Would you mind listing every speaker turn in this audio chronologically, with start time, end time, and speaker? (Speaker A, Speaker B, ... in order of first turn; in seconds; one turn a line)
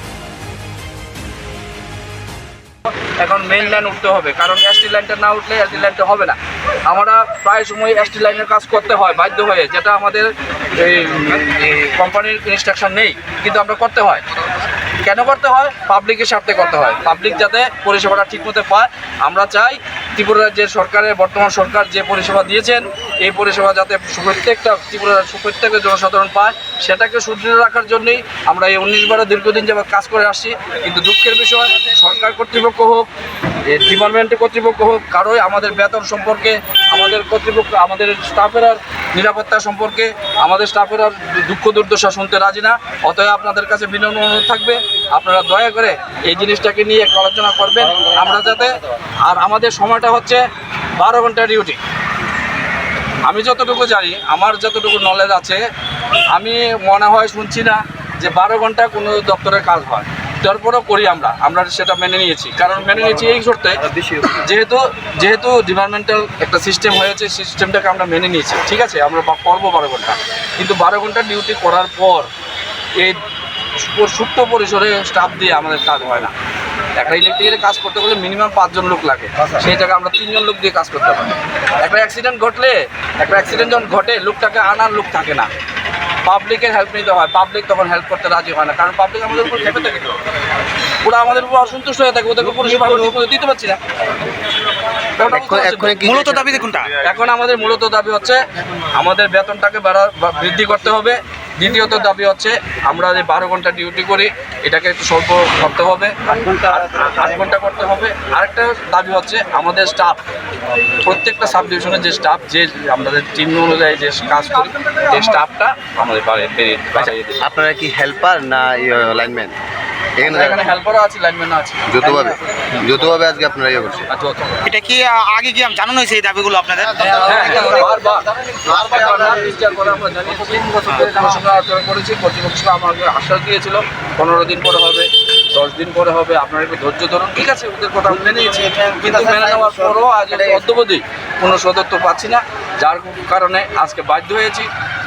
Speaker A: 3.2-14.2
Speaker A: 15.0-33.1
Speaker A: 33.7-50.4
Speaker A: 51.0-51.8
Speaker A: 53.2-55.6
Speaker A: 56.3-72.3
Speaker A: 73.8-76.3
Speaker A: 77.0-85.5
Speaker A: 86.2-90.2
Speaker A: 91.0-93.8
Speaker A: 95.2-96.0
Speaker B: 95.2-96.7
Speaker C: 96.0-96.9
Speaker A: 97.0-98.4
Speaker A: 99.0-110.2
Speaker A: 111.0-117.4
Speaker B: 117.4-119.5
Speaker B: 120.2-120.7
Speaker A: 120.2-122.3
Speaker B: 121.9-124.1
Speaker A: 124.1-124.6
Speaker C: 124.7-127.9
Speaker A: 127.0-144.7
Speaker C: 130.9-131.4